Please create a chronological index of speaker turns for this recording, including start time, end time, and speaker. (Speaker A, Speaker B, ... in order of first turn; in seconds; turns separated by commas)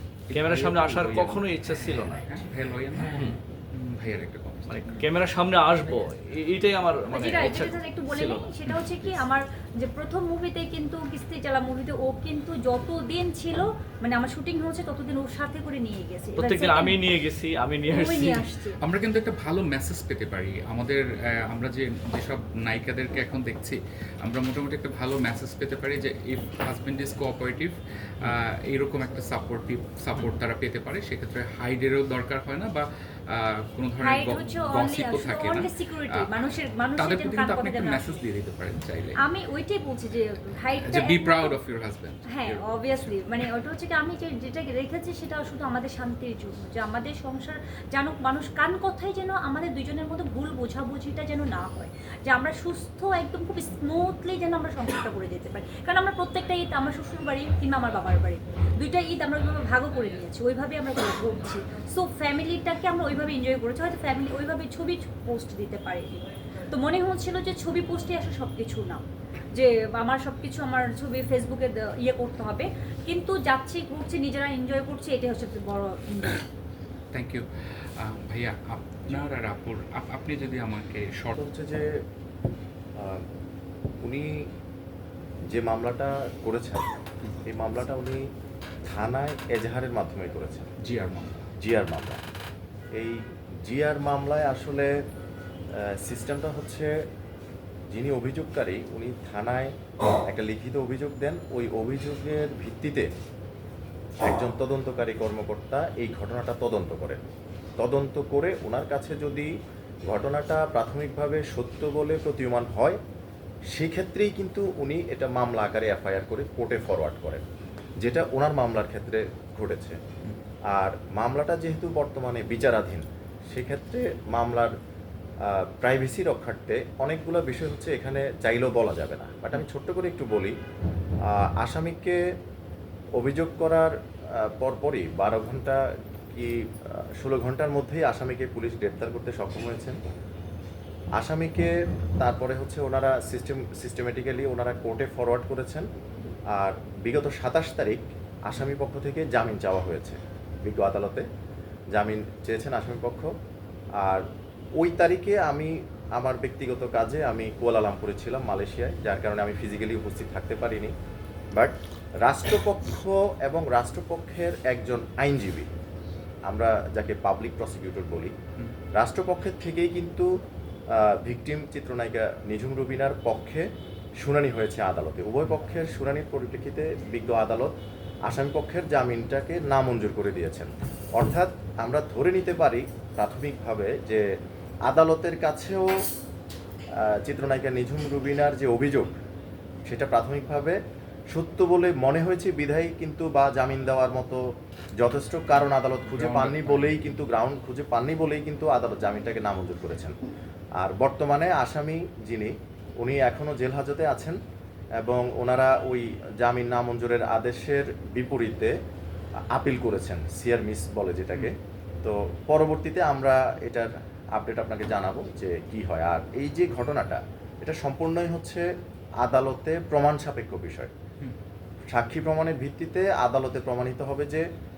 Speaker A: 0.3-5.1, Speaker B: 0.3-2.4, Speaker B: 3.0-3.4, Speaker B: 4.7-8.5, Speaker C: 7.1-17.0, Speaker A: 8.7-9.1, Speaker B: 16.4-18.4, Speaker C: 17.9-18.8, Speaker A: 18.8-36.3, Speaker C: 34.0-38.2, Speaker A: 37.0-39.2, Speaker C: 39.2-41.6, Speaker A: 40.9-43.2, Speaker C: 42.3-76.5, Speaker A: 77.1-81.3, Speaker D: 81.3-82.0, Speaker D: 83.0-83.2, Speaker D: 84.0-84.5, Speaker D: 85.5-86.9, Speaker D: 87.5-88.3, Speaker D: 88.9-90.7, Speaker A: 90.8-91.5, Speaker D: 91.6-92.2, Speaker D: 93.0-94.9, Speaker D: 95.8-96.9, Speaker D: 97.9-99.7, Speaker D: 100.3-103.1, Speaker D: 104.2-107.2, Speaker D: 107.8-109.5, Speaker D: 110.1-113.0, Speaker D: 113.7-117.4, Speaker D: 118.0-120.0, Speaker D: 120.7-124.7, Speaker D: 125.4-130.5, Speaker D: 131.3-132.2, Speaker D: 133.2-140.0, Speaker D: 141.2-145.9, Speaker D: 146.5-151.2, Speaker D: 151.9-153.3, Speaker D: 154.0-154.2, Speaker D: 154.8-160.9, Speaker D: 161.5-165.7, Speaker D: 166.5-168.3, Speaker D: 168.9-170.3, Speaker D: 170.9-173.7, Speaker D: 174.2-177.7, Speaker D: 178.3-184.2, Speaker D: 184.8-186.1, Speaker D: 187.0-189.2, Speaker D: 189.9-190.8, Speaker D: 191.3-200.2, Speaker A: 196.1-197.2, Speaker D: 200.8-204.4, Speaker D: 205.0-208.7, Speaker D: 209.5-218.7, Speaker D: 219.2-220.9, Speaker D: 221.9-224.4